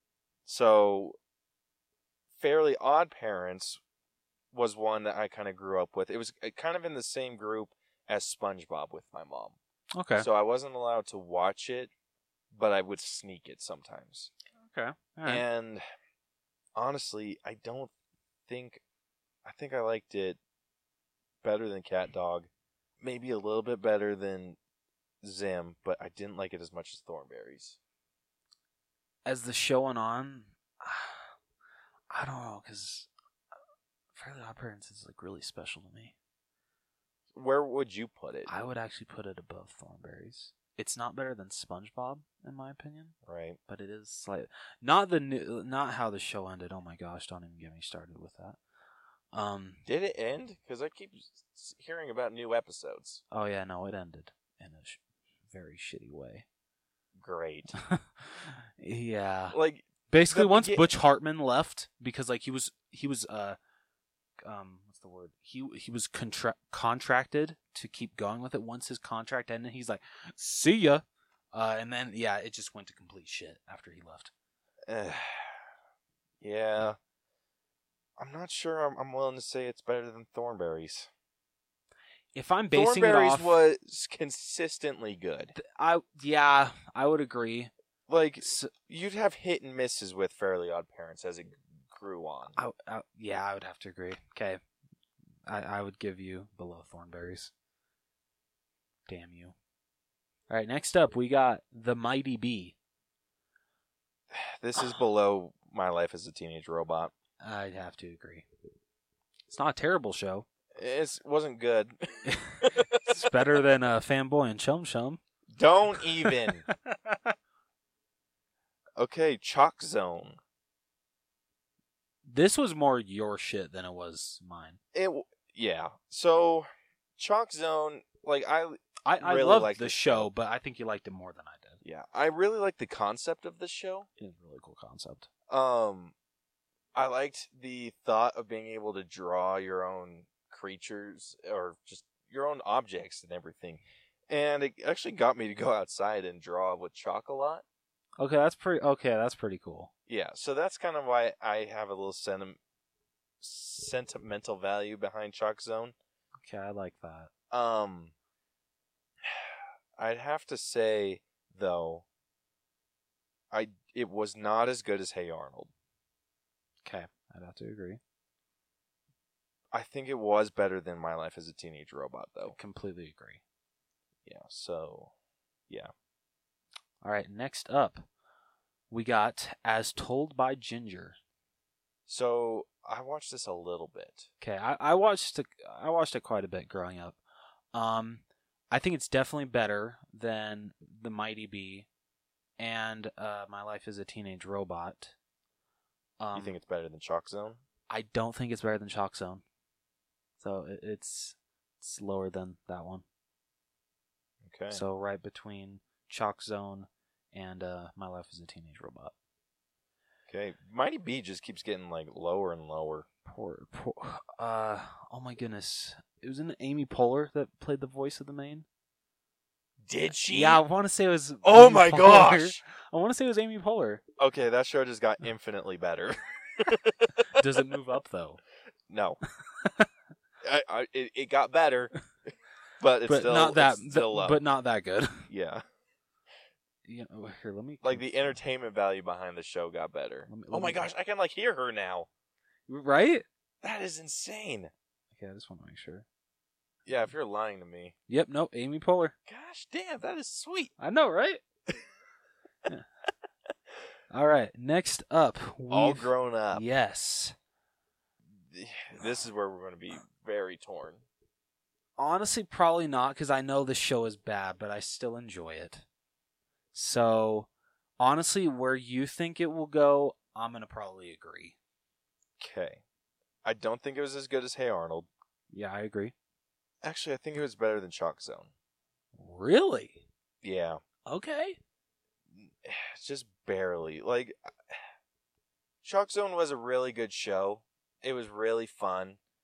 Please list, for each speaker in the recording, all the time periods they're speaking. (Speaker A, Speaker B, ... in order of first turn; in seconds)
Speaker A: 0.5-1.2, 2.4-3.8, 4.5-9.6, 10.2-11.9, 12.5-14.3, 15.2-15.8, 16.8-17.9, 18.5-18.8, 19.4-20.4, 21.4-22.5, 23.0-24.6, 25.2-27.8, 37.3-38.5, 43.2-43.6, 49.9-53.2, 57.2-57.7, 59.5-60.9, 74.9-75.6, 76.4-77.0, 78.2-81.1, 82.7-85.5, 88.1-92.5, 104.3-107.1, 110.8-113.0, 115.5-116.6, 119.0-120.4, 124.9-126.7, 127.2-130.3, 131.8-134.1, 135.5-136.1, 136.9-147.6, 150.1-152.6, 153.4-155.9, 157.5-158.1, 159.2-162.1, 163.5-165.7, 169.7-172.6, 174.2-175.1, 182.1-184.3, 196.3-197.6, 204.4-204.8, 210.3-213.1, 219.9-220.6, 221.4-222.6, 224.2-227.4, 228.9-229.2, 230.4-231.9, 232.8-234.4, 235.3-235.6, 237.8-242.1, 243.6-244.7, 246.8-247.9, 249.3-250.7, 255.7-256.6, 258.4-261.0, 272.4-272.8, 273.4-275.1, 276.8-278.5, 280.4-280.8, 282.3-284.8, 285.8-289.2
Speaker B: 9.9-10.2, 14.6-15.4, 29.2-31.3, 32.1-33.1, 34.1-36.1, 38.5-43.1, 43.7-48.6, 49.3-49.9, 53.3-56.5, 57.7-59.6, 60.1-63.6, 64.4-74.3, 82.3-83.6, 85.5-87.7, 88.4-88.7, 92.5-94.6, 95.5-97.5, 99.1-99.5, 100.5-102.8, 107.4-108.5, 109.5-110.5, 112.2-115.2, 116.2-117.3, 122.2-124.8, 129.1-131.8, 134.2-135.3, 148.2-149.9, 156.4-157.3, 166.8-168.0, 172.5-173.4, 177.0-178.1, 178.9-181.2, 184.4-187.2, 187.7-191.9, 192.6-195.1, 196.2-196.6, 197.9-199.4, 200.4-203.0, 204.7-209.1, 213.2-218.7, 220.2-224.0, 227.3-228.4, 229.6-229.9, 233.1-235.3, 236.8-238.4, 240.3-240.9, 242.7-243.2, 245.1-246.1, 248.1-249.1, 250.8-251.4, 254.1-257.3, 262.0-265.8, 266.7-267.5, 268.0-271.6, 275.5-276.1, 279.1-280.1, 281.1-281.6